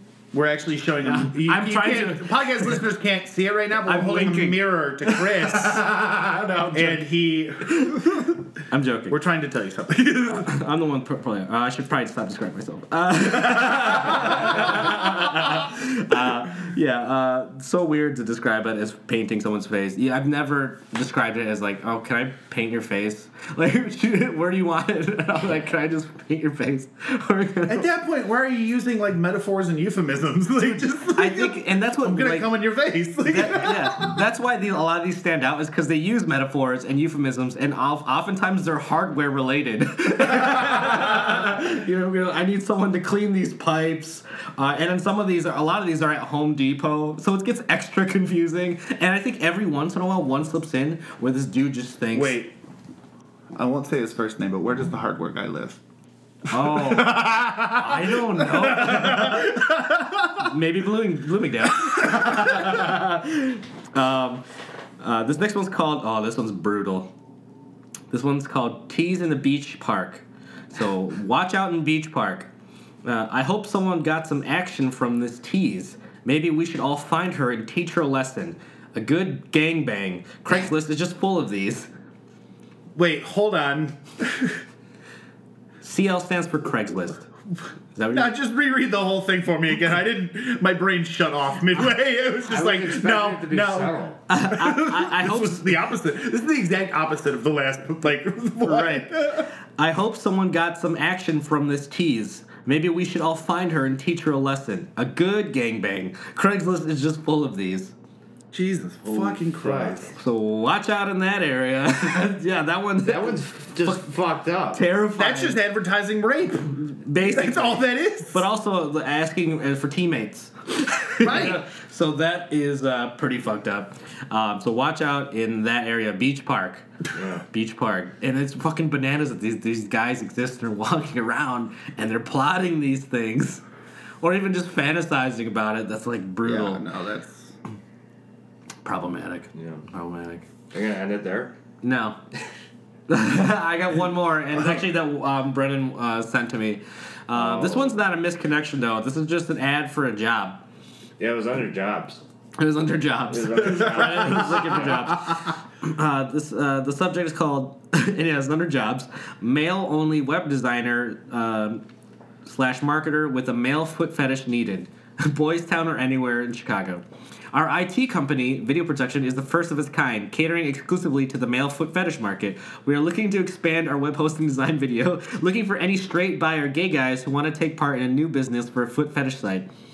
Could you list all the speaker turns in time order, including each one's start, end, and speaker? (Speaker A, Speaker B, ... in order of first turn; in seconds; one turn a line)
Speaker A: 0.3-6.0
Speaker B: 1.0-2.8
Speaker B: 3.9-7.0
Speaker A: 6.7-8.4
Speaker B: 7.7-8.2
Speaker B: 8.7-9.2
Speaker A: 9.1-10.6
Speaker B: 10.4-27.9
Speaker A: 13.6-14.4
Speaker A: 27.7-34.2
Speaker B: 31.1-32.5
Speaker B: 33.3-52.4
Speaker A: 52.1-52.5
Speaker A: 53.5-55.8
Speaker B: 56.5-59.6
Speaker A: 56.5-60.5
Speaker B: 60.4-64.4
Speaker A: 61.9-62.8
Speaker B: 65.0-67.1
Speaker B: 68.1-72.5
Speaker B: 73.0-81.9
Speaker A: 83.0-84.6
Speaker B: 85.8-87.3
Speaker B: 88.0-88.3
Speaker A: 88.1-99.5
Speaker C: 92.5-94.2
Speaker B: 94.3-95.8
Speaker B: 98.6-107.9
Speaker A: 108.5-110.1
Speaker C: 109.1-110.1
Speaker B: 110.1-114.0
Speaker C: 113.0-114.8
Speaker B: 114.7-115.6
Speaker A: 115.2-118.4
Speaker B: 117.0-126.9
Speaker A: 121.2-121.6
Speaker C: 127.2-127.4
Speaker B: 127.5-133.6
Speaker B: 134.2-136.8
Speaker A: 136.4-137.6
Speaker B: 138.8-140.5
Speaker C: 139.6-139.9
Speaker C: 140.7-141.6
Speaker B: 141.8-142.2
Speaker B: 143.1-150.6
Speaker C: 147.3-148.0
Speaker C: 151.2-152.2
Speaker B: 152.6-161.8
Speaker C: 153.3-155.1
Speaker B: 162.4-179.7